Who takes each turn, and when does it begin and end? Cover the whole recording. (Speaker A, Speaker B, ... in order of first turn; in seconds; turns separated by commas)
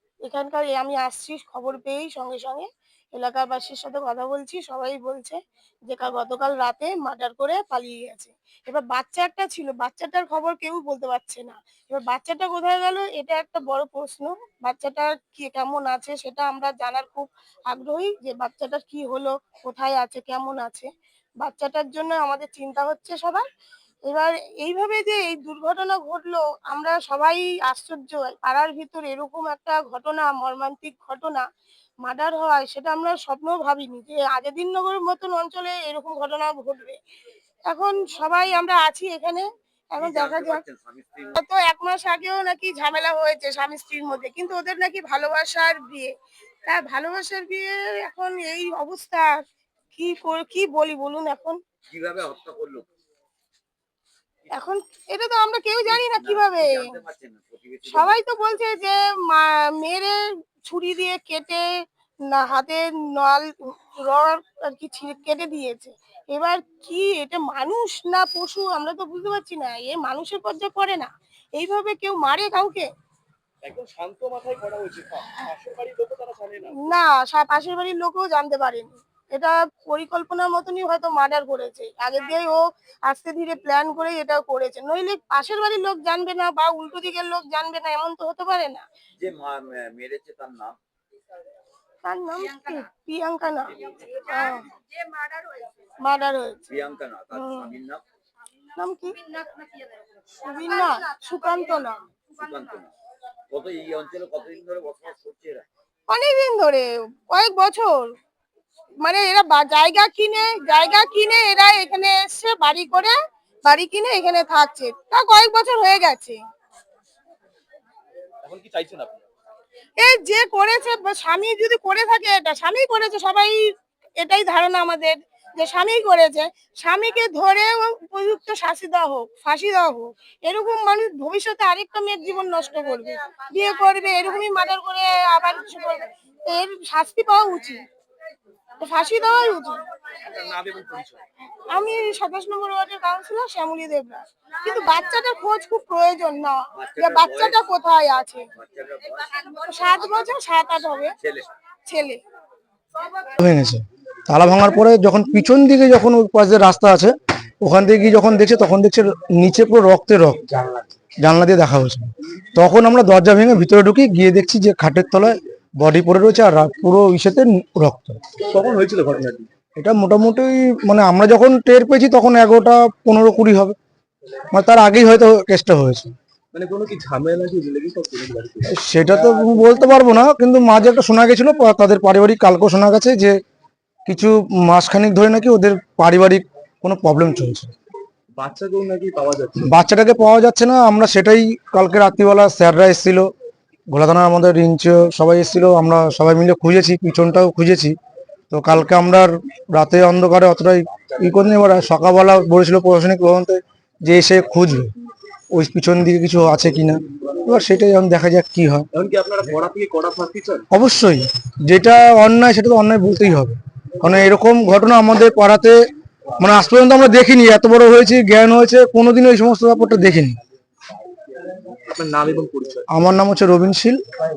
Speaker A: 0.2-20.9, Speaker A: 21.4-23.4, Speaker A: 24.1-31.4, Speaker A: 32.0-37.0, Speaker A: 37.7-40.6, Speaker B: 40.0-41.4, Speaker A: 41.3-46.1, Speaker A: 46.7-49.3, Speaker A: 50.0-51.6, Speaker B: 51.9-52.9, Speaker A: 54.5-56.9, Speaker B: 55.9-58.2, Speaker A: 57.9-60.1, Speaker A: 60.6-61.6, Speaker A: 62.3-63.5, Speaker A: 64.0-72.8, Speaker C: 73.7-76.7, Speaker A: 76.8-88.8, Speaker B: 89.2-90.8, Speaker A: 92.0-94.7, Speaker A: 96.0-96.6, Speaker B: 96.7-98.0, Speaker A: 97.3-97.7, Speaker A: 98.8-99.2, Speaker A: 100.4-102.0, Speaker B: 102.4-102.9, Speaker B: 103.5-105.7, Speaker A: 106.1-108.1, Speaker A: 109.0-116.4, Speaker C: 118.5-119.2, Speaker A: 120.0-123.5, Speaker A: 124.2-137.8, Speaker A: 138.8-139.8, Speaker C: 140.4-141.2, Speaker A: 141.7-148.5, Speaker B: 146.8-147.7, Speaker B: 148.6-149.3, Speaker A: 149.4-151.2, Speaker B: 151.2-151.5, Speaker A: 151.9-152.2, Speaker D: 153.4-160.6, Speaker D: 161.2-168.2, Speaker C: 168.5-169.5, Speaker D: 169.8-173.8, Speaker D: 174.5-176.1, Speaker C: 176.5-179.8, Speaker D: 178.7-183.4, Speaker D: 184.1-187.7, Speaker C: 188.4-189.8, Speaker D: 189.7-193.3, Speaker D: 193.9-197.9, Speaker D: 198.5-204.9, Speaker D: 205.5-208.9, Speaker C: 208.9-210.7, Speaker D: 210.7-215.8, Speaker D: 216.4-220.4, Speaker C: 221.9-222.8, Speaker D: 222.9-224.0